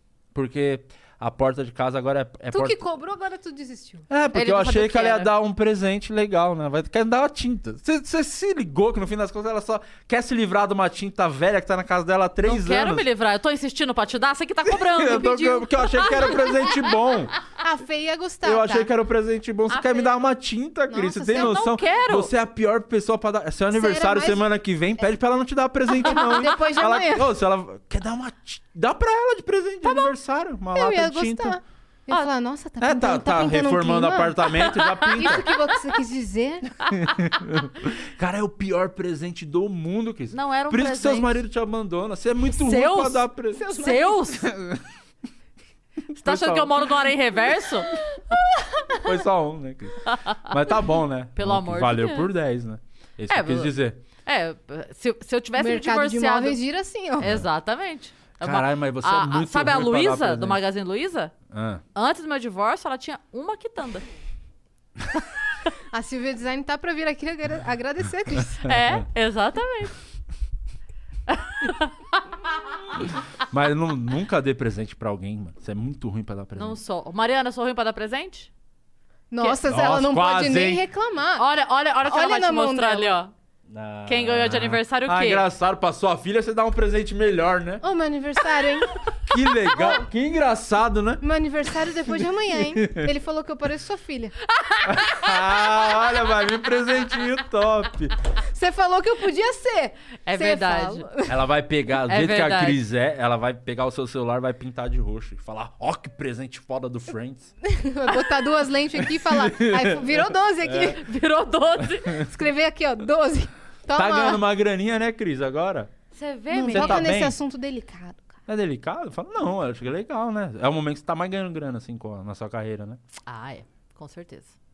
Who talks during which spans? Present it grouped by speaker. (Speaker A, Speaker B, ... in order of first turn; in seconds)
Speaker A: 0.3-2.8, 4.1-13.1, 14.7-17.3, 18.4-31.6, 32.8-35.5, 36.9-43.7, 44.4-44.8, 46.1-47.1, 49.0-54.0, 57.2-57.5, 58.4-60.6, 61.5-61.8, 68.6-69.0, 73.4-76.8, 79.7-80.8, 83.7-87.8, 89.3-91.2, 92.5-93.1, 94.8-98.1, 101.2-107.5, 109.0-111.0, 113.9-115.9, 116.7-117.4, 118.5-123.0
Speaker B: 2.5-4.1, 17.6-18.9, 20.9-21.6, 23.7-24.4, 26.0-27.3, 29.9-30.1, 30.7-34.4, 35.2-36.7, 43.5-44.4, 48.3-49.0, 55.6-57.3, 65.9-68.6, 79.3-81.5, 82.0-83.2, 87.8-89.0, 91.2-94.4, 98.5-101.4, 107.6-111.0, 112.2-114.4, 116.5-118.4
Speaker C: 4.3-5.3, 12.4-16.7, 19.7-20.2, 21.3-22.3, 34.6-35.5, 40.3-41.4, 42.5-44.5, 46.1-47.9, 50.0-50.5, 51.3-52.3, 53.3-56.6, 57.2-61.3, 61.9-64.0, 68.6-69.9, 71.3-72.2, 76.6-78.5, 81.4-83.3, 84.0-85.5, 94.6-95.6, 100.2-101.1, 102.1-102.8, 110.8-112.2, 116.1-117.1, 123.2-124.5